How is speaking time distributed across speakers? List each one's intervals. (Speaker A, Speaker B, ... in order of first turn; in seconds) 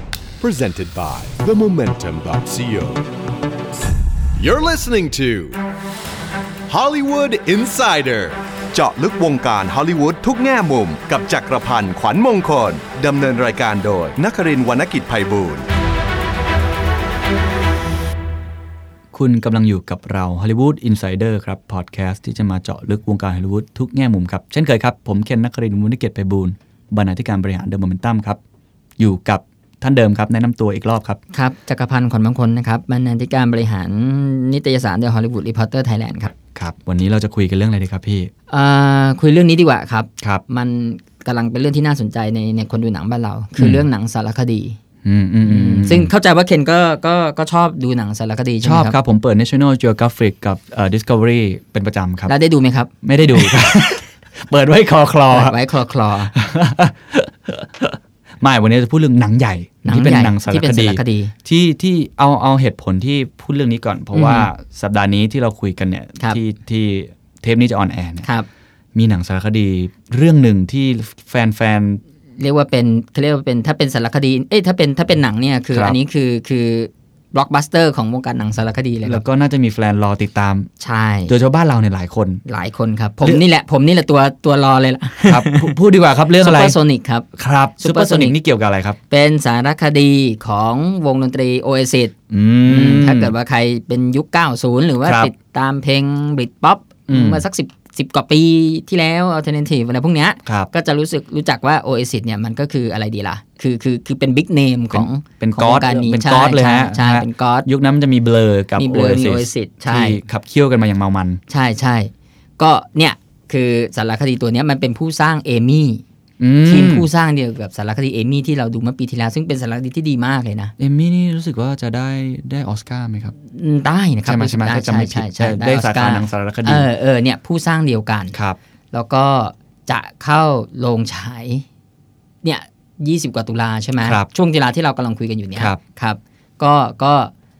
Speaker A: 0.4-3.0, 4.4-5.6, 6.7-15.7
Speaker B: 19.1-28.4, 29.0-31.2, 36.5-38.3, 43.6-43.9, 45.0-46.1, 48.6-52.3, 53.0-55.6, 56.3-68.3, 69.0-72.0, 79.0-80.7, 81.3-82.4, 85.3-86.8, 87.4-89.0, 92.3-93.3, 95.0-95.3, 97.1-97.5, 100.5-100.7, 104.9-111.4, 116.4-117.1, 120.8-123.3, 124.3-126.9, 128.3-128.6, 134.0-134.3, 135.6-135.8
Speaker C: 31.3-36.3, 38.5-44.8, 45.5-49.0, 52.3-53.7, 55.3-56.3, 59.9-61.3, 64.1-64.5, 72.4-79.2, 80.8-81.3, 82.5-85.7, 86.4-87.3, 87.8-88.4, 89.1-92.1, 92.7-107.7, 108.8-110.2, 111.5-116.0, 116.7-120.7, 123.5-128.3, 128.9-131.7, 132.4-137.3